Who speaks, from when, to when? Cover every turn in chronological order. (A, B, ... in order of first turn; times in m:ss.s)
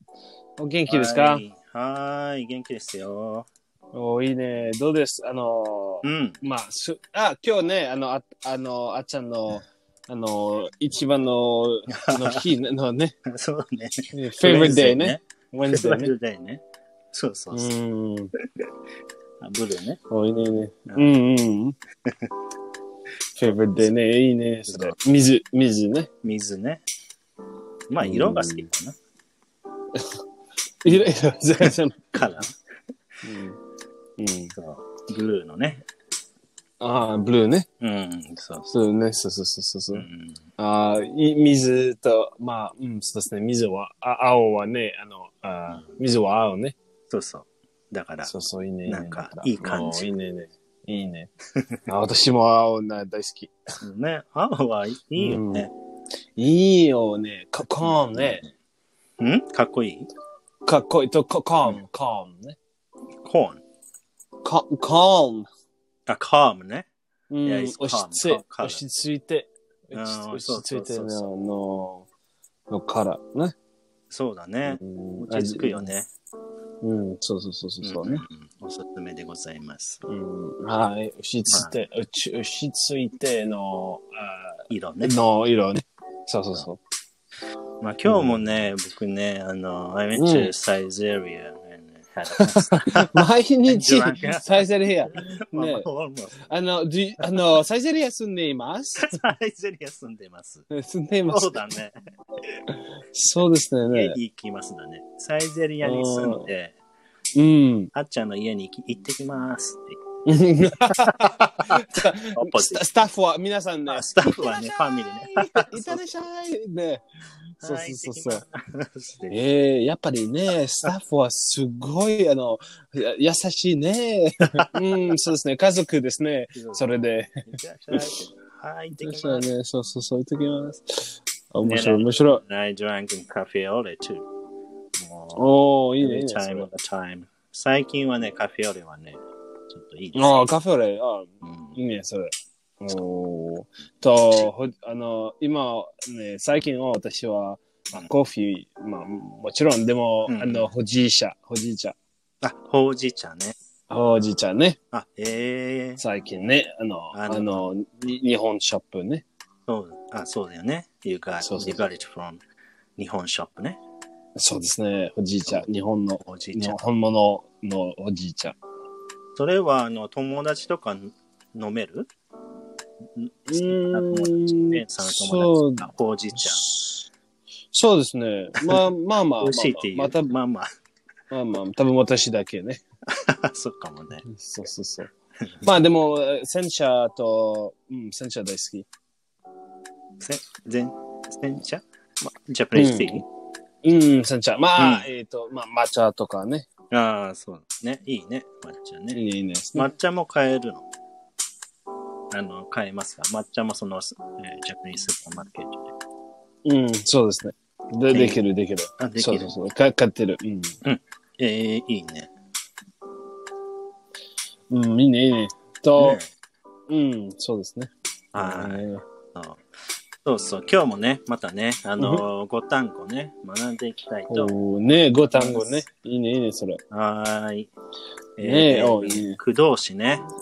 0:00.6-0:01.4 A
0:00.9-0:03.5 B
0:03.9-0:13.1 A
0:06.0-0:06.4 B
0:11.9-0:12.5 B
0:13.2-0:17.7 B
0:14.1-0:16.1 A
0:17.5-0:18.3 A
0:18.4-0:18.7 B
0:19.4-0:20.0 B
0:20.1-0:21.8 A
0:20.9-0:21.2 B
0:22.0-0:22.3 B
0:23.4-0:26.1 A
0:23.4-0:23.9 B
0:24.7-0:25.0 B
0:26.2-0:26.8 B
0:27.9-0:29.0 B
0:28.0-0:28.7 A
0:30.8-0:32.1 A
0:31.6-0:32.5 B
0:33.2-0:33.6 A
0:34.2-0:34.5 A
0:34.5-0:35.8 B
0:36.8-0:37.7 A
0:37.8-0:38.7 B
0:38.7-0:40.1 A
0:39.9-0:40.5 B
0:40.6-0:46.8 A
0:47.1-0:48.3 B
0:48.2-0:51.3 A
0:48.8-0:50.1 B
0:51.5-0:51.8 B
0:51.9-0:53.5 A
0:53.8-0:55.7 B
0:55.2-0:55.7 A
0:56.4-0:58.4 A
0:57.8-0:58.5 B
0:59.2-1:00.1 B
1:00.6-1:02.6 A
1:03.2-1:03.6 B
1:04.4-1:05.5 A
1:06.1-1:06.9 B
1:07.3-1:12.1 A
1:07.4-1:08.8 B
1:09.9-1:11.2 B
1:12.7-1:13.5 A
1:14.1-1:16.1 B
1:14.7-1:15.9 A
1:16.8-1:18.2 A
1:17.8-1:20.0 B
1:20.1-1:26.8 A
1:21.5-1:21.7 B
1:24.7-1:25.2 B
1:27.8-1:36.4 B
1:30.1-1:30.5 A
1:32.3-1:35.9 A
1:36.4-1:39.2 A
1:39.0-1:40.6 B
1:40.7-1:41.6 A
1:41.3-1:42.0 B
1:42.5-1:44.2 A
1:43.9-1:46.7 B
1:45.8-1:46.5 A
1:47.3-1:47.9 A
1:47.9-1:50.0 B
1:50.2-1:57.0 A
1:50.9-1:52.9 B
1:53.9-1:56.2 B
1:57.6-1:58.4 A
1:57.6-1:59.4 B
1:59.3-2:08.2 A
2:06.5-2:06.9 B
2:07.4-2:09.5 B
2:09.0-2:12.4 A
2:11.6-2:14.3 B
2:15.0-2:20.3 B
2:15.4-2:16.7 A
2:20.1-2:32.0 A
2:21.4-2:21.8 B
2:30.3-2:30.7 B
2:32.4-2:33.6 B
2:33.9-2:34.8 A
2:34.9-2:36.0 B
2:36.0-2:39.2 A
2:37.1-2:37.6 B
2:39.7-2:42.4 B
2:41.4-2:41.8 A
2:43.0-2:43.8 B
2:44.4-2:48.6 A
2:46.2-2:46.9 B
2:49.3-2:52.1 B
2:53.2-2:56.6 B
2:53.5-2:57.1 A
2:57.7-3:00.3 A
2:59.4-3:00.7 B
3:01.3-3:02.8 A
3:03.1-3:04.2 B
3:04.2-3:08.8 A
3:05.4-3:05.7 B
3:10.2-3:11.8 B
3:12.5-3:13.2 B
3:12.7-3:13.2 A
3:13.8-3:16.6 A
3:14.8-3:15.1 B
3:16.9-3:19.2 B
3:19.1-3:19.9 A
3:19.7-3:20.9 B
3:22.3-3:25.9 B
3:26.6-3:30.8 A
3:28.1-3:28.4 B
3:29.0-3:29.5 B
3:30.8-3:32.3 B
3:34.7-3:36.2 A
3:36.0-3:36.3 B
3:36.9-3:39.0 A
3:38.3-3:39.7 B
3:40.2-3:44.5 B
3:44.3-3:46.8 A
3:45.3-3:45.8 B
3:46.9-3:47.7 B
3:48.4-3:50.2 B
3:48.4-3:49.4 A